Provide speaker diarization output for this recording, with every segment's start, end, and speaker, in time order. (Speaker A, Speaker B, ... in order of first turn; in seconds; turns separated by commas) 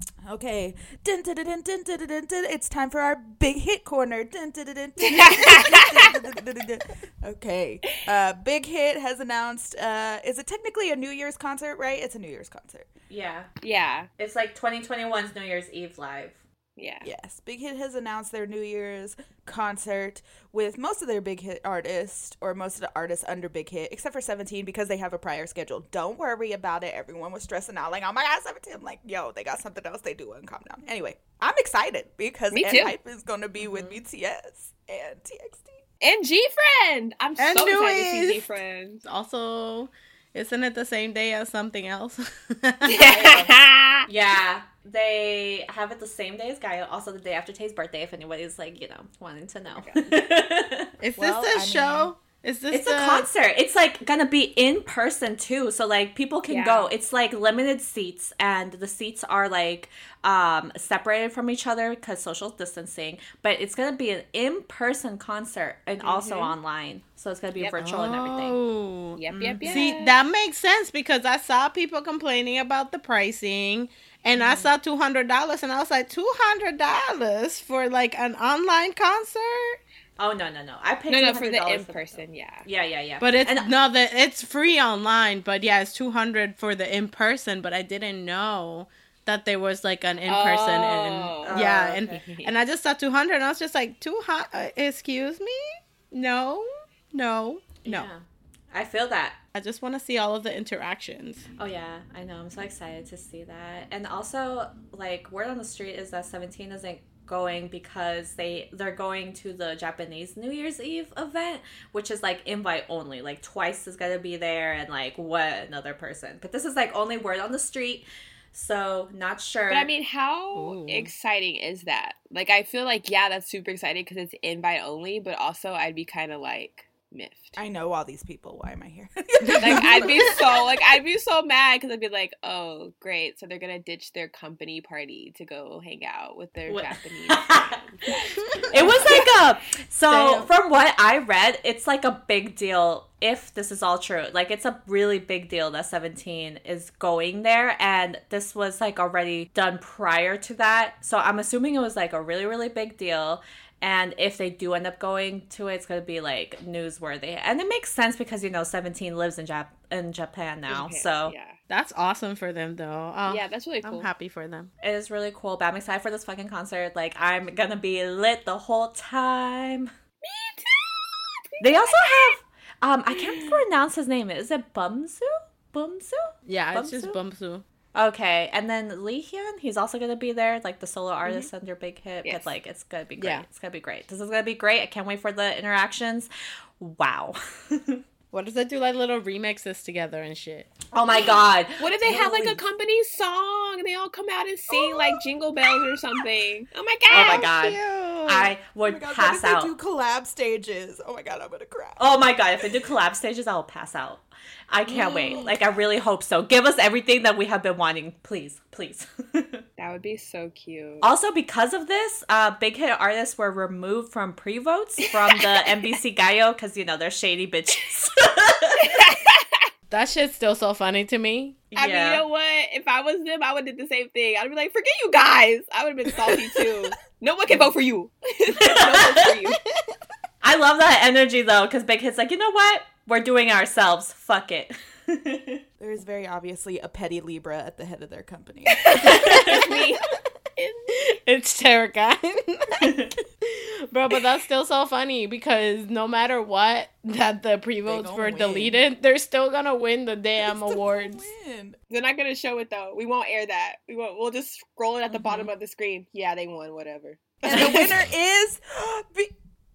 Speaker A: 0.2-12.9, Speaker B: 5.0-6.1, Speaker C: 13.1-13.5, Speaker B: 13.6-14.1, Speaker C: 14.2-16.4, Speaker B: 16.8-17.1, Speaker A: 17.0-35.8, Speaker B: 32.5-32.9, Speaker B: 36.0-39.0, Speaker D: 37.4-38.5, Speaker D: 39.0-43.0, Speaker B: 42.9-44.1, Speaker C: 43.0-43.5, Speaker C: 44.1-50.9, Speaker B: 49.8-50.1, Speaker D: 51.0-53.3, Speaker A: 51.2-52.1, Speaker C: 52.7-68.6, Speaker B: 56.5-56.9, Speaker B: 66.0-66.5, Speaker D: 67.8-79.8, Speaker B: 69.2-70.2, Speaker C: 69.3-69.8, Speaker B: 74.4-74.7, Speaker C: 80.2-83.7, Speaker B: 81.1-82.7, Speaker D: 83.2-98.1, Speaker B: 90.3-92.5, Speaker C: 91.4-92.2, Speaker C: 97.8-99.4, Speaker D: 99.5-101.5, Speaker C: 101.6-119.9, Speaker B: 119.7-127.6, Speaker D: 120.5-121.1, Speaker A: 127.6-130.9, Speaker D: 129.4-130.0, Speaker B: 129.6-139.2, Speaker C: 136.7-137.8, Speaker C: 138.7-161.3, Speaker D: 140.1-140.4, Speaker B: 160.7-161.6, Speaker D: 161.7-164.7, Speaker B: 163.3-164.1, Speaker C: 164.8-169.9, Speaker B: 170.2-172.4, Speaker C: 171.6-177.2, Speaker B: 173.1-173.6, Speaker D: 176.5-177.6, Speaker C: 177.9-188.0, Speaker B: 182.2-182.5, Speaker D: 183.2-183.5, Speaker D: 188.3-190.7, Speaker C: 190.9-192.6, Speaker B: 191.2-197.5, Speaker C: 197.1-199.7, Speaker D: 197.2-198.5, Speaker A: 198.8-202.0, Speaker C: 202.0-209.6, Speaker B: 205.0-205.5, Speaker A: 205.1-205.6, Speaker B: 209.8-211.1, Speaker C: 211.0-218.9, Speaker B: 215.5-215.8, Speaker B: 218.8-219.7, Speaker D: 219.9-221.6, Speaker C: 221.7-222.2, Speaker B: 221.8-229.6, Speaker C: 228.5-229.4, Speaker C: 230.4-235.6, Speaker A: 235.8-239.2, Speaker B: 238.9-241.1, Speaker C: 239.0-239.7, Speaker D: 240.9-251.3, Speaker C: 242.8-243.2, Speaker A: 247.9-248.8, Speaker A: 250.4-251.8, Speaker B: 251.9-257.9, Speaker C: 255.1-255.5, Speaker A: 257.5-259.3, Speaker D: 257.5-257.9